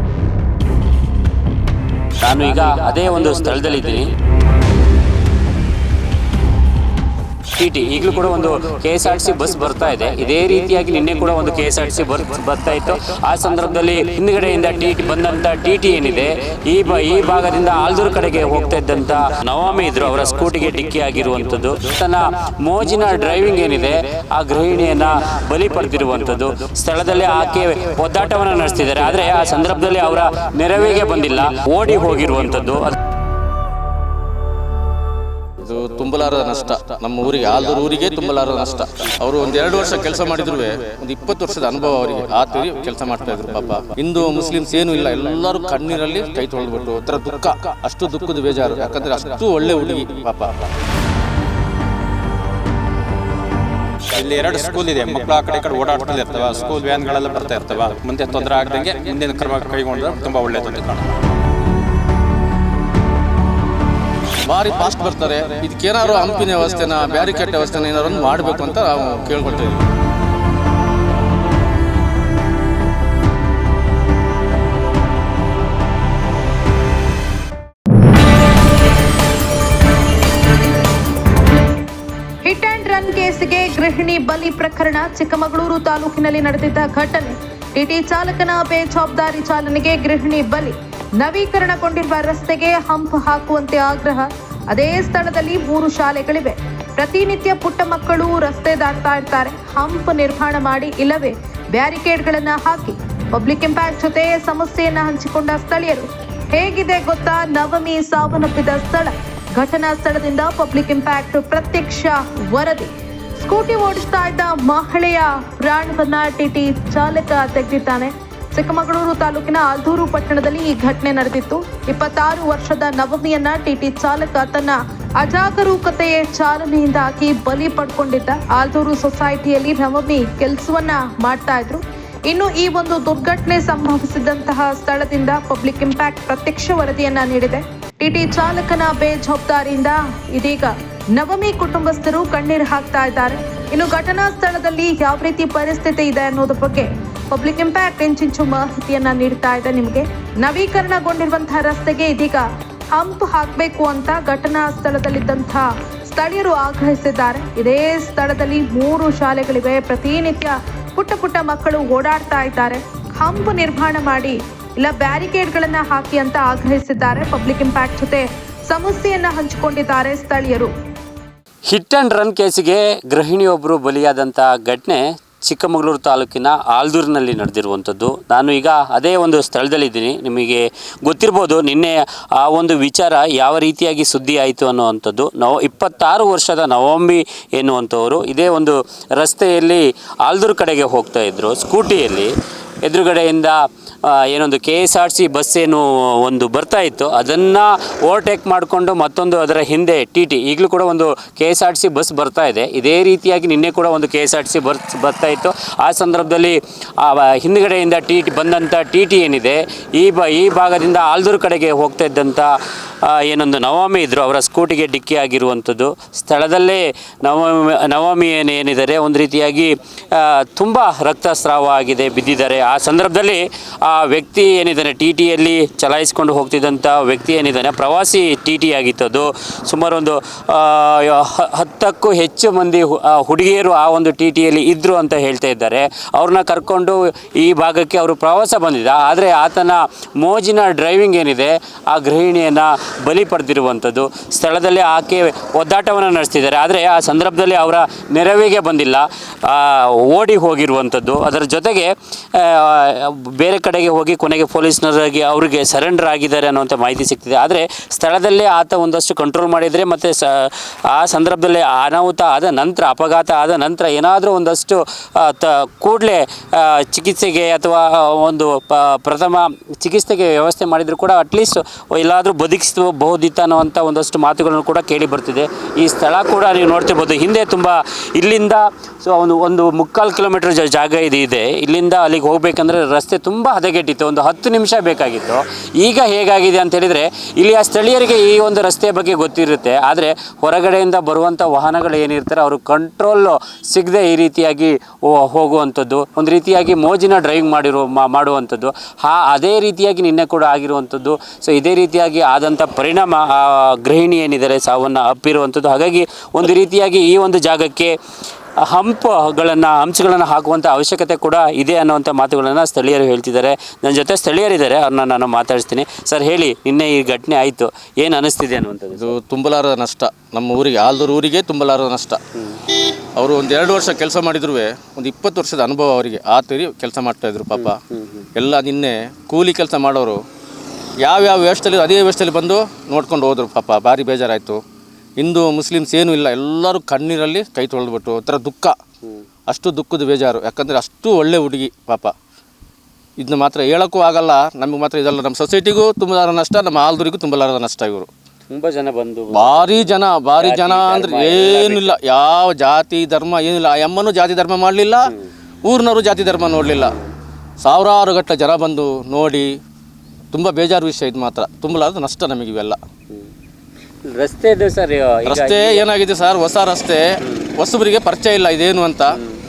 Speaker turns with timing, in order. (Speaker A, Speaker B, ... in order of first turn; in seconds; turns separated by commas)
Speaker A: 2.2-4.1, Speaker A: 7.6-33.0, Speaker B: 35.6-50.6, Speaker C: 54.1-61.1, Speaker B: 54.4-54.6, Speaker B: 56.1-56.6, Speaker B: 64.5-69.8, Speaker D: 82.5-112.9, Speaker D: 113.4-170.7, Speaker A: 171.7-192.3, Speaker A: 192.8-193.6, Speaker A: 194.1-212.5, Speaker A: 213.1-307.9, Speaker A: 308.7-319.1, Speaker B: 318.9-322.2, Speaker B: 323.2-327.8, Speaker A: 327.6-328.2, Speaker B: 328.4-330.2, Speaker B: 331.0-334.6, Speaker B: 335.2-338.8, Speaker B: 339.5-342.1, Speaker B: 343.2-348.1, Speaker A: 348.5-349.8, Speaker B: 349.3-355.1, Speaker A: 350.4-351.9, Speaker B: 355.7-356.9, Speaker B: 357.6-359.5, Speaker B: 360.3-362.8, Speaker A: 364.2-365.8, Speaker B: 365.3-367.0, Speaker B: 367.6-369.2